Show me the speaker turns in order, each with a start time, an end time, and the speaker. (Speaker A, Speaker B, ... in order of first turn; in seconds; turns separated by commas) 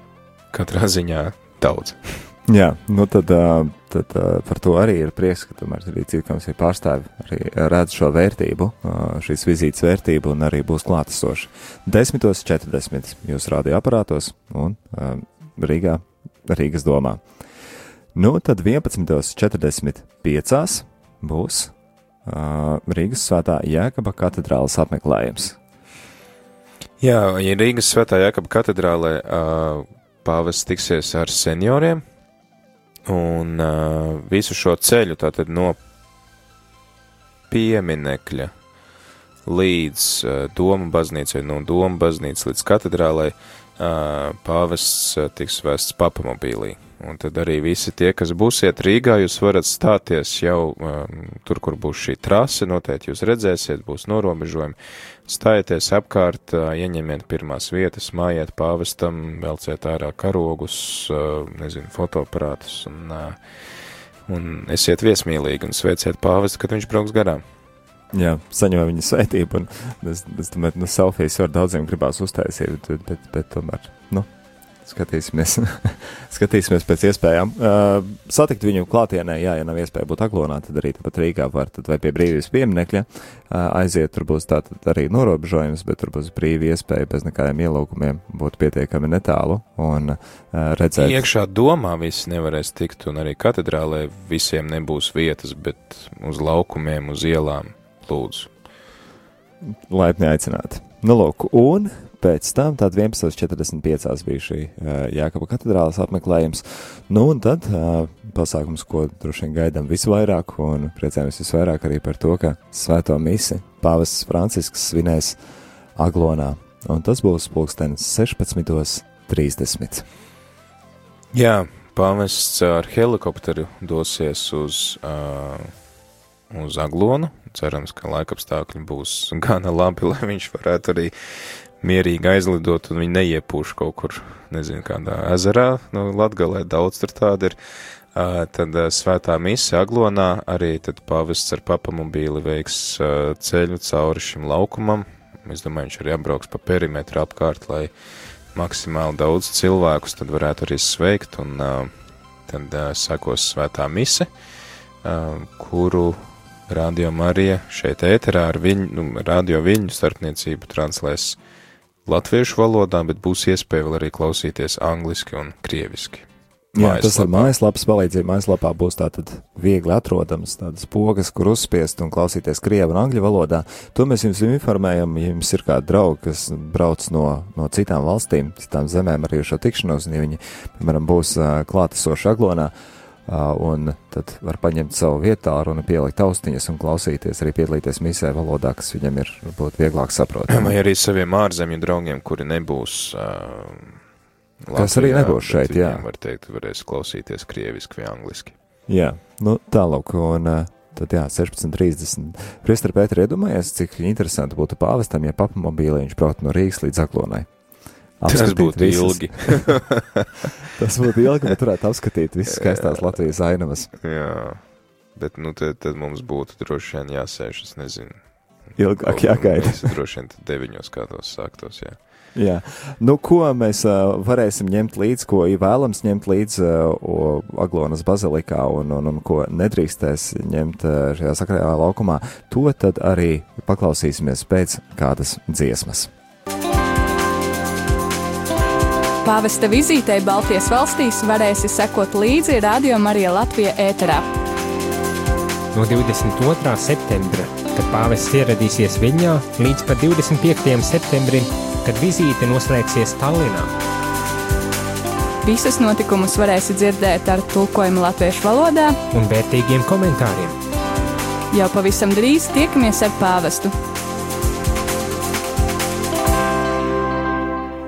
Speaker A: 0.5-2.2, Speaker B: 2.5-17.2, Speaker B: 18.1-21.7, Speaker B: 22.2-25.6, Speaker A: 27.0-32.0, Speaker A: 33.1-35.8, Speaker A: 37.5-38.5, Speaker A: 39.5-54.8, Speaker A: 55.3-63.4, Speaker A: 64.3-67.4, Speaker B: 68.1-74.3, Speaker B: 74.8-91.3, Speaker A: 91.0-98.5, Speaker B: 99.7-115.4, Speaker B: 116.0-120.0, Speaker A: 121.3-125.7, Speaker A: 126.5-131.1, Speaker A: 131.8-137.6, Speaker A: 138.1-147.9, Speaker A: 148.5-151.9, Speaker A: 152.5-154.3, Speaker A: 155.0-161.4, Speaker A: 162.1-166.3, Speaker B: 166.8-182.7, Speaker A: 166.8-167.5, Speaker B: 183.3-190.8, Speaker A: 190.5-194.0, Speaker A: 194.6-198.6, Speaker B: 194.8-196.0, Speaker B: 198.9-207.5, Speaker B: 208.2-209.7, Speaker A: 208.3-210.5, Speaker B: 210.8-213.9, Speaker A: 212.6-212.9, Speaker A: 214.0-218.2, Speaker B: 218.8-219.9, Speaker A: 219.0-222.0, Speaker B: 222.3-236.1, Speaker C: 239.2-244.2, Speaker D: 245.7-253.7, Speaker C: 255.4-259.0, Speaker D: 259.1-260.6, Speaker C: 261.5-263.7